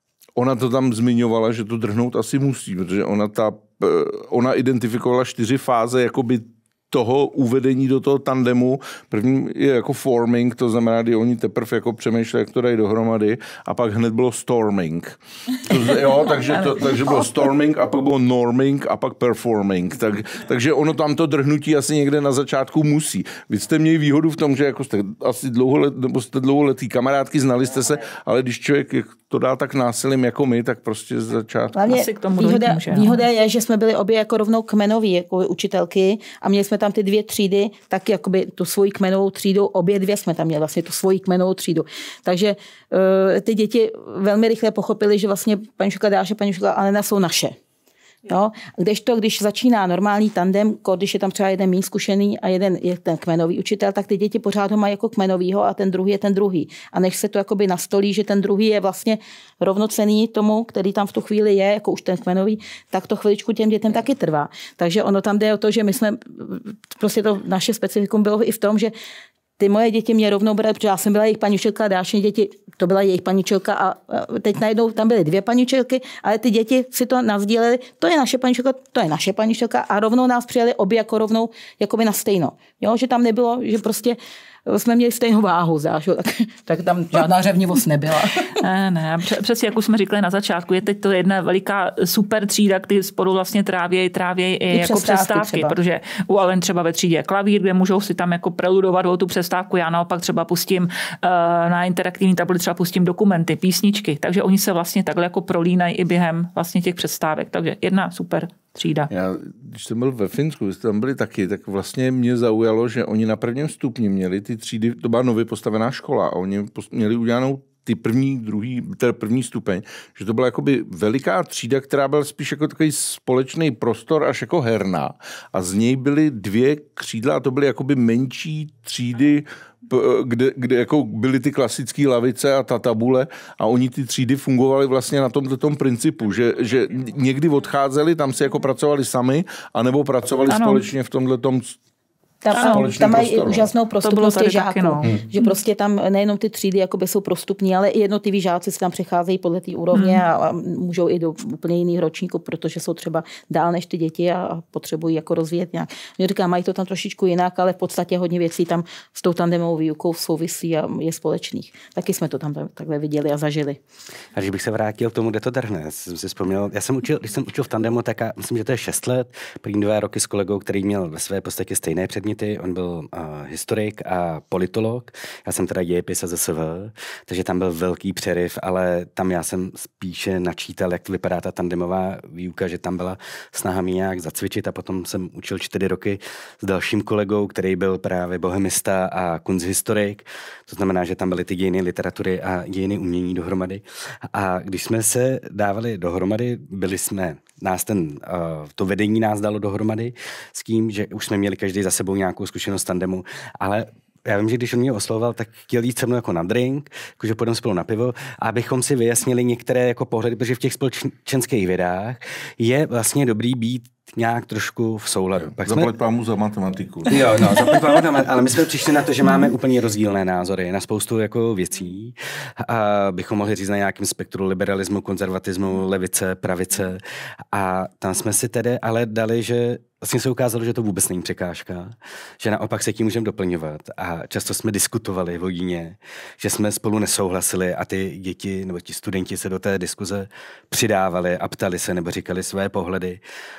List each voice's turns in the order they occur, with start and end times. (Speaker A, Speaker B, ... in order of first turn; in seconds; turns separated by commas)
Speaker A: 0.4-31.8, Speaker B: 31.7-47.6, Speaker C: 31.9-33.2, Speaker B: 48.3-68.9, Speaker B: 69.6-88.6, Speaker C: 88.6-109.1, Speaker B: 94.7-95.7, Speaker A: 109.1-141.8, Speaker C: 140.5-140.8, Speaker B: 142.4-163.8, Speaker C: 142.5-142.9, Speaker A: 142.5-143.7, Speaker C: 144.0-145.5, Speaker C: 149.9-150.2, Speaker D: 164.3-215.9, Speaker A: 215.6-217.6, Speaker D: 217.1-243.2